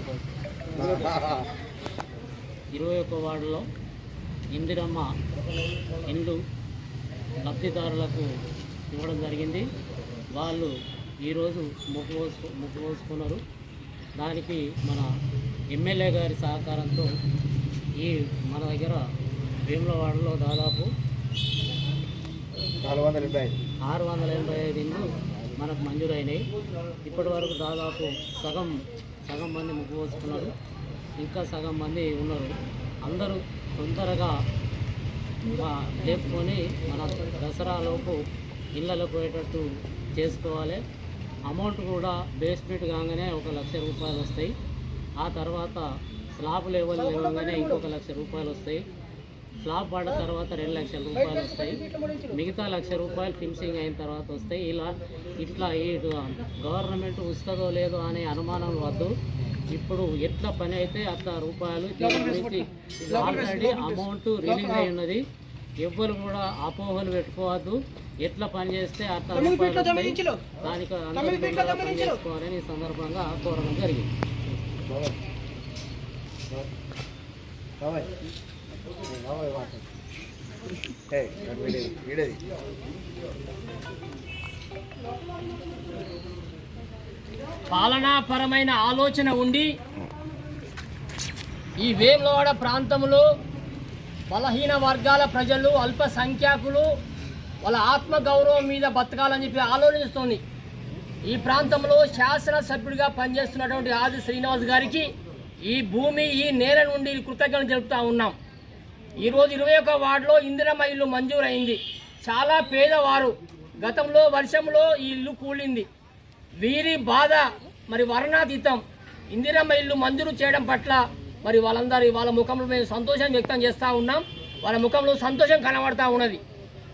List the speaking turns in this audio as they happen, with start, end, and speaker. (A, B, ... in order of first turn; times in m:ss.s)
0:00.8-0:01.3 A
0:02.7-0:03.6 B
0:04.5-0:05.1 B
0:06.0-0:06.4 B
0:07.4-0:08.3 B
0:08.9-0:09.7 B
0:10.4-0:10.7 B
0:11.2-0:13.4 B
0:14.2-0:15.1 B
0:15.7-0:17.1 B
0:18.0-0:19.0 B
0:19.7-0:20.9 B
0:22.8-0:23.6 A
0:23.9-0:26.4 B
0:27.0-0:30.5 B
0:31.2-0:34.3 B
0:35.4-0:38.2 B
0:38.8-0:39.6 B
0:40.2-0:40.8 B
0:41.5-0:44.5 B
0:45.2-0:45.8 B
0:46.4-0:48.8 B
0:49.6-0:59.1 B
0:59.7-1:05.2 B
1:05.8-1:14.1 B
1:17.8-1:18.1 A
1:19.1-1:19.8 A
1:21.1-1:22.4 A
1:27.7-1:29.7 C
1:31.8-1:33.2 C
1:34.3-1:36.9 C
1:37.6-1:40.4 C
1:41.3-1:45.1 C
1:45.7-1:48.4 C
1:49.2-1:55.9 C
1:56.6-2:06.4 C